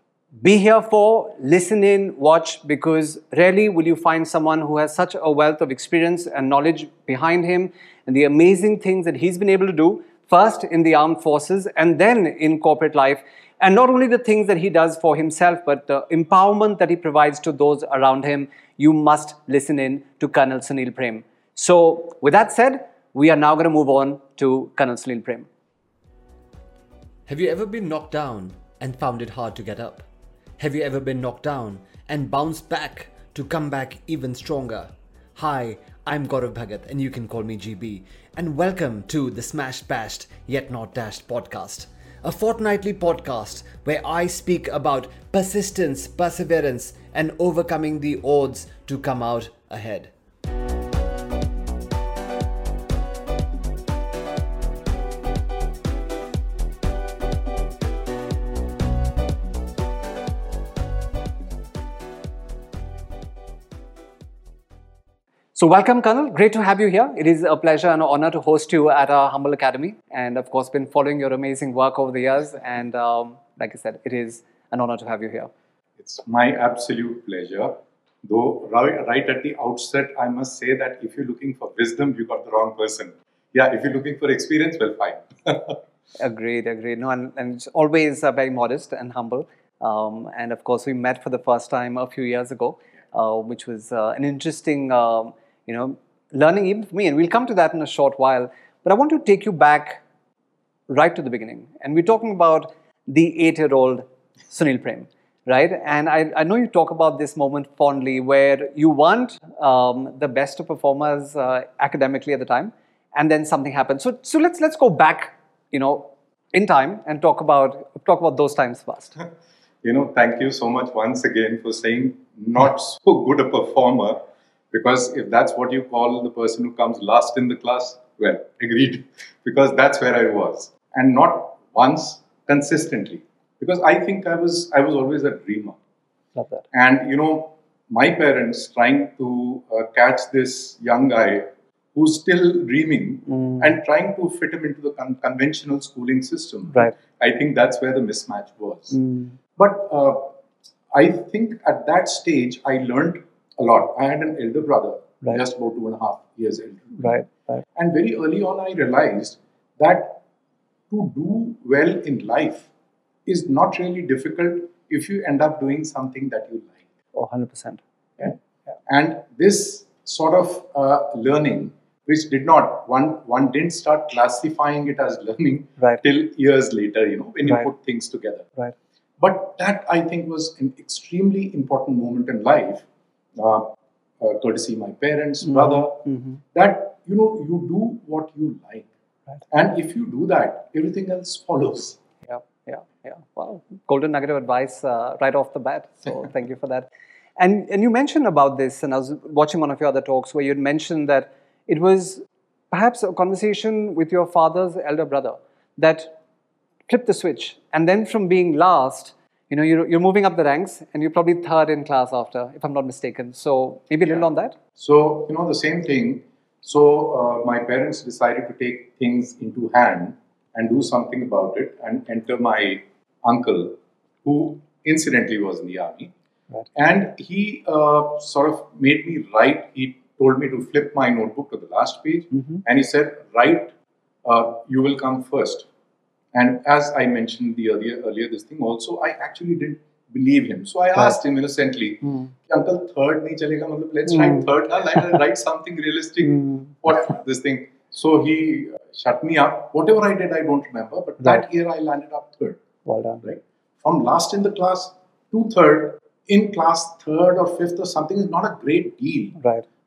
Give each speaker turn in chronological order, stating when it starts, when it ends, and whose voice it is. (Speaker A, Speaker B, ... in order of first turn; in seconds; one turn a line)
Speaker A: 0.4-25.5
Speaker B: 27.3-30.1
Speaker B: 30.6-50.1
Speaker A: 65.5-75.5
Speaker C: 76.0-85.8
Speaker A: 86.2-100.0
Speaker A: 100.9-119.2
Speaker C: 119.8-135.8
Speaker A: 136.4-136.6
Speaker C: 136.7-149.0
Speaker A: 143.3-143.6
Speaker A: 148.9-149.4
Speaker C: 149.6-150.3
Speaker C: 150.9-160.2
Speaker A: 157.0-157.6
Speaker C: 160.9-162.7
Speaker C: 163.3-166.8
Speaker A: 167.1-167.8
Speaker C: 168.9-178.5
Speaker C: 179.2-182.8
Speaker C: 183.4-188.9
Speaker A: 185.6-186.4
Speaker C: 189.5-192.0
Speaker A: 192.2-196.9
Speaker A: 197.4-206.2
Speaker A: 206.9-214.6
Speaker C: 214.8-226.1
Speaker C: 226.8-233.7
Speaker C: 234.2-235.7
Speaker C: 236.3-252.6
Speaker A: 246.3-246.7
Speaker A: 252.8-253.2
Speaker C: 253.2-259.4
Speaker A: 259.4-259.6